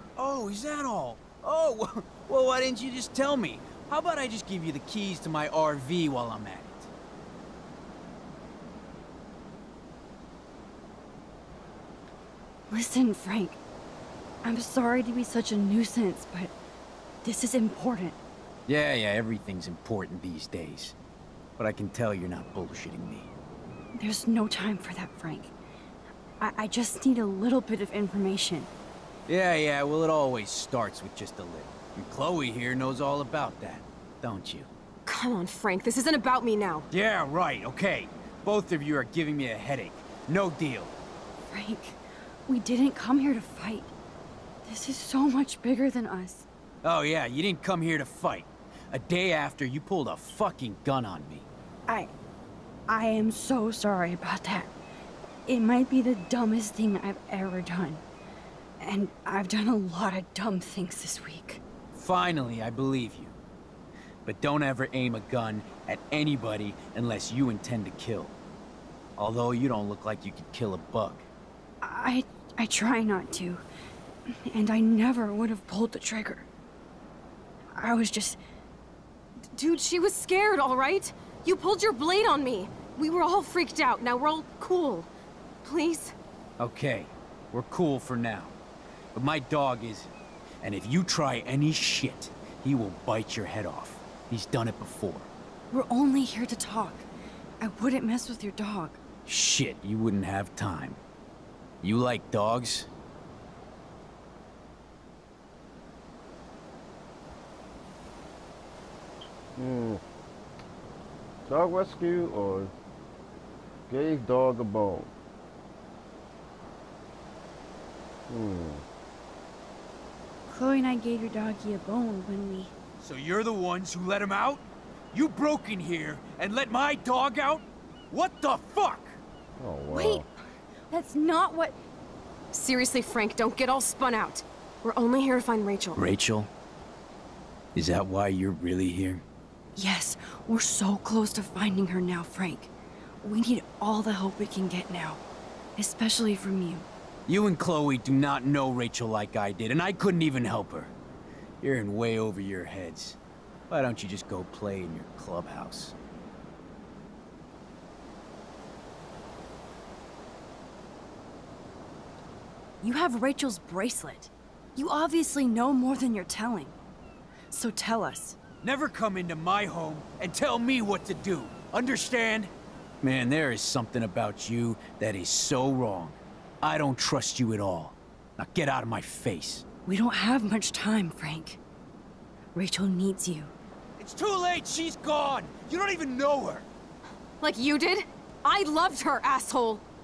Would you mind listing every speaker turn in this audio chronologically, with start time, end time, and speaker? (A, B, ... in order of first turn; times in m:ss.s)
0:00.2-0:06.9 A
0:12.7-0:13.6 B
0:14.4-0:16.5 B
0:17.2-0:18.2 B
0:18.7-0:21.0 A
0:21.6-0:23.3 A
0:24.0-0:25.5 B
0:26.4-0:28.7 B
0:29.3-0:34.7 A
0:35.1-0:36.9 C
0:36.9-0:40.9 A
0:41.5-0:43.9 B
0:44.6-0:46.5 B
0:46.8-0:51.5 A
0:52.9-0:54.7 B
0:55.5-0:58.0 B
0:58.8-1:01.6 B
1:01.9-1:03.3 A
1:04.2-1:08.4 A
1:09.2-1:11.3 A
1:11.8-1:13.6 B
1:14.3-1:16.5 B
1:17.8-1:18.4 B
1:19.5-1:25.1 C
1:25.6-1:26.2 C
1:26.6-1:28.6 A
1:29.2-1:35.3 A
1:35.7-1:37.1 B
1:37.6-1:39.0 B
1:39.3-1:41.0 A
1:41.8-1:42.9 A
1:49.6-1:50.0 D
1:51.5-1:52.7 D
1:53.9-1:55.1 D
1:58.3-1:58.8 D
2:00.5-2:02.7 B
2:03.0-2:09.2 A
2:09.6-2:10.2 D
2:09.9-2:10.3 B
2:10.9-2:11.8 B
2:12.5-2:16.0 C
2:16.0-2:16.5 A
2:17.8-2:19.2 A
2:19.8-2:25.2 B
2:25.8-2:26.9 B
2:27.3-2:30.9 A
2:31.6-2:33.2 A
2:33.7-2:36.0 A
2:42.8-2:46.8 B
2:47.5-2:48.4 B
2:48.6-2:52.5 A
2:53.0-2:59.6 A
2:59.9-3:01.6 B
3:02.6-3:03.5 B
3:04.0-3:06.7 A
3:07.4-3:09.8 C